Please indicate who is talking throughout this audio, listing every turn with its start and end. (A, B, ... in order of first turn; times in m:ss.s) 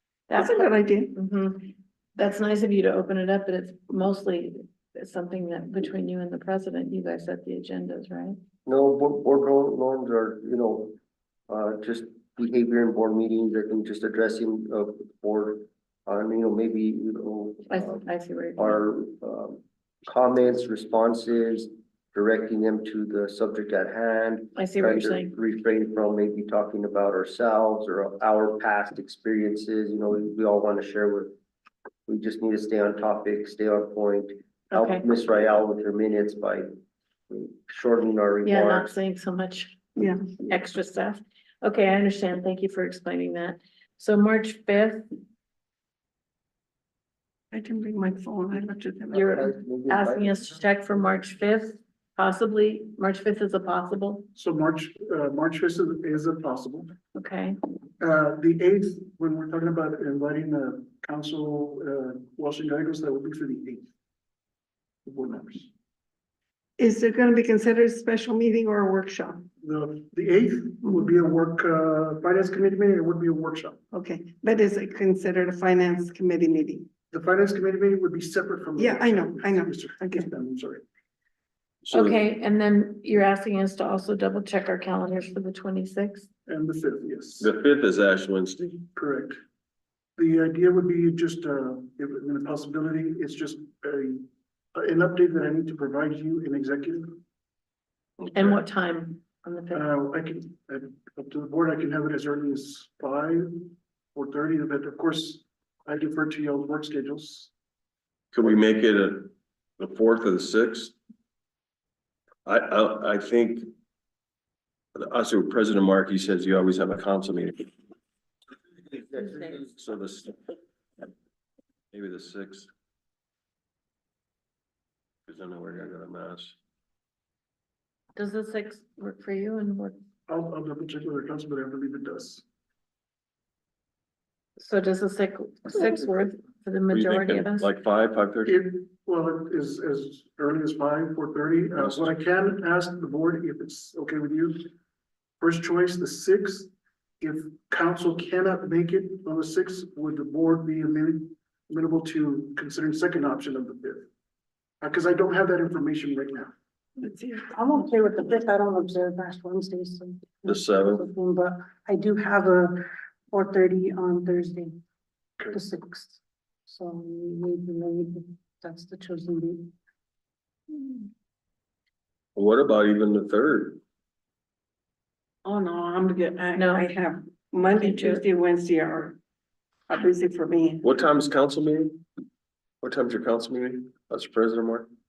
0:00.3-0:08.4 A
0:00.3-0:01.1 B
0:08.6-0:11.0 C
0:11.5-0:18.0 C
0:17.7-0:18.8 A
0:18.6-0:31.3 C
0:24.6-0:25.3 A
0:32.1-0:36.7 C
0:34.7-0:35.0 A
0:37.3-0:39.0 C
0:38.4-0:39.8 A
0:40.5-0:45.0 A
0:47.5-0:49.2 B
0:49.1-0:54.3 A
0:49.2-0:50.4 C
0:54.4-0:56.9 D
0:57.2-0:57.6 A
0:58.0-1:03.9 D
1:05.0-1:05.7 D
1:06.8-1:09.4 B
1:09.6-1:13.8 D
1:13.9-1:16.9 B
1:17.1-1:20.8 D
1:18.8-1:20.3 B
1:21.8-1:22.2 E
1:21.9-1:26.3 A
1:26.5-1:27.5 D
1:27.4-1:28.9 E
1:29.0-1:29.4 D
1:30.2-1:37.2 D
1:38.3-1:39.9 A
1:40.0-1:47.5 D
1:48.3-1:51.0 E
1:52.5-1:53.7 E
1:55.0-1:57.7 E
1:58.9-1:59.7 C
1:59.8-2:00.4 E
2:01.9-2:02.7 E
2:05.3-2:06.6 E
2:08.2-2:10.0 A
2:10.3-2:12.4 D
2:14.6-2:17.7 A
2:16.9-2:18.6 E
2:18.5-2:24.7 D
2:21.8-2:22.1 E
2:25.4-2:26.7 D
2:27.2-2:34.1 D
2:34.8-2:36.5 D
2:37.5-2:44.8 F
2:40.4-2:41.1 E
2:45.5-2:49.7 F
2:52.4-2:53.8 E
2:55.4-2:59.2 B
2:56.6-2:56.9 A
2:57.8-2:58.2 A
2:59.9-3:00.8 B
3:00.8-3:02.0 E
3:02.8-3:04.9 E